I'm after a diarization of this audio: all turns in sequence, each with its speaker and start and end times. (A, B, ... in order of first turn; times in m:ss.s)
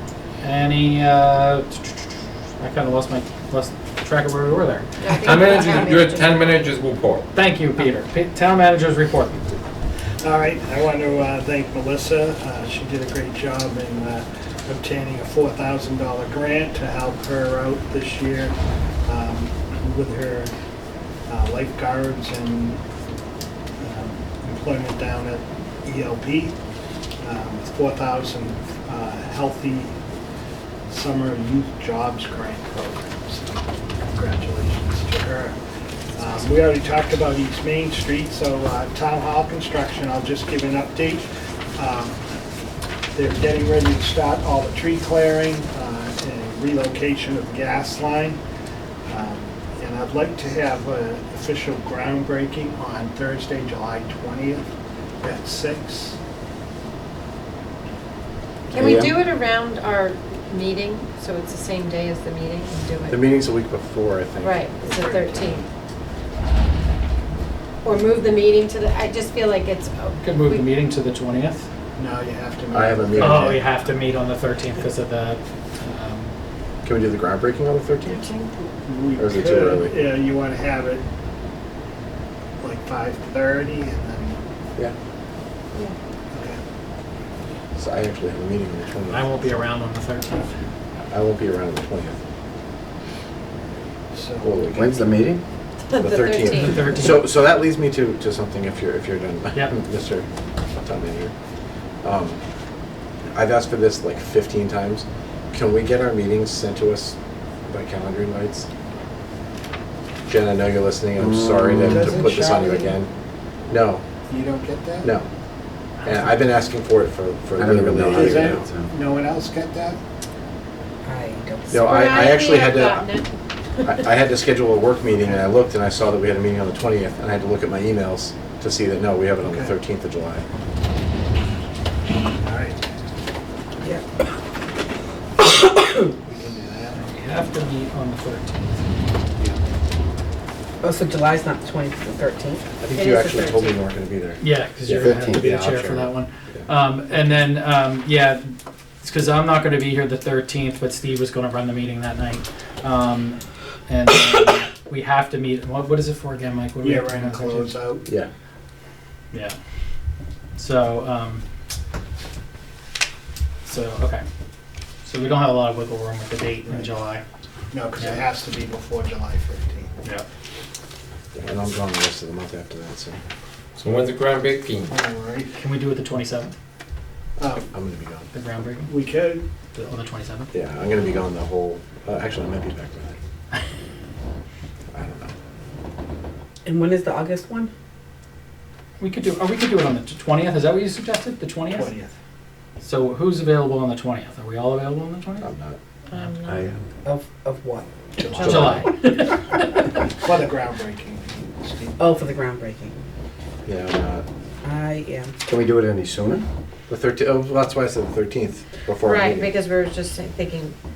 0:00.4-0:05.4 A
0:05.0-0:06.3 B
0:05.1-0:07.3 C
0:07.3-0:09.6 A
0:10.2-0:20.5 D
0:21.3-0:22.8 D
0:23.8-0:26.6 D
0:27.2-0:30.0 D
0:30.9-0:35.6 D
0:36.1-0:42.2 D
0:43.1-0:48.4 D
0:49.0-0:54.7 D
0:55.2-0:56.2 D
0:58.7-1:03.2 B
0:58.7-0:59.2 E
1:03.1-1:05.7 F
1:04.4-1:05.6 B
1:07.8-1:10.6 B
1:10.2-1:11.6 A
1:12.0-1:13.7 D
1:12.7-1:13.6 F
1:13.2-1:16.3 A
1:16.8-1:18.3 F
1:18.1-1:18.7 B
1:18.8-1:21.1 D
1:19.2-1:19.9 F
1:22.6-1:24.4 D
1:26.3-1:26.6 D
1:27.8-1:29.6 F
1:29.1-1:30.6 A
1:31.1-1:32.2 F
1:34.1-1:34.7 D
1:34.4-1:35.0 F
1:34.7-1:35.4 E
1:35.9-1:37.0 B
1:36.0-1:40.3 F
1:36.6-1:37.2 A
1:40.8-1:41.3 F
1:42.0-1:42.4 F
1:43.3-1:47.2 F
1:47.7-1:48.7 F
1:50.3-1:53.1 F
1:51.2-1:52.3 E
1:51.9-1:52.8 D
1:53.7-1:54.0 F
1:54.3-1:55.1 D
1:55.0-1:55.3 F
1:56.0-1:56.5 A
1:56.0-1:58.7 F
1:57.6-1:58.9 E
1:58.1-2:00.0 D
2:01.0-2:02.2 G
2:01.7-2:03.2 F
2:01.8-2:03.3 B
2:03.8-2:10.4 F
2:09.4-2:09.7 D
2:12.4-2:12.8 D
2:15.4-2:16.1 G
2:16.2-2:17.2 D
2:17.0-2:18.9 A
2:20.8-2:22.6 G
2:22.8-2:25.1 F
2:22.9-2:23.8 B
2:24.4-2:37.7 A
2:24.9-2:26.1 E
2:36.8-2:38.1 D
2:40.6-2:41.4 A
2:43.6-2:44.2 A
2:45.0-2:47.2 A
2:46.6-2:46.9 D
2:47.7-2:49.9 D
2:51.3-2:53.2 F
2:53.8-2:54.9 C
2:54.9-2:55.6 D
2:55.6-2:56.5 A
2:57.4-2:57.7 D
2:57.7-2:58.3 F
2:58.3-2:58.9 A
2:58.9-2:59.4 D
2:59.7-3:00.5 A
3:00.5-3:03.2 F
3:04.9-3:05.3 F
3:06.6-3:07.7 G
3:09.0-3:11.9 A
3:11.7-3:12.1 D
3:12.8-3:15.5 A
3:15.4-3:15.8 F
3:16.1-3:16.6 B
3:16.4-3:16.8 E
3:17.0-3:17.9 G
3:18.2-3:18.5 D
3:18.3-3:18.9 B
3:18.4-3:18.8 F
3:18.4-3:19.8 A
3:20.2-3:22.0 D
3:22.0-3:22.9 G
3:23.6-3:24.2 F
3:24.6-3:25.3 G
3:25.5-3:26.4 E
3:26.9-3:29.5 F
3:29.0-3:30.7 B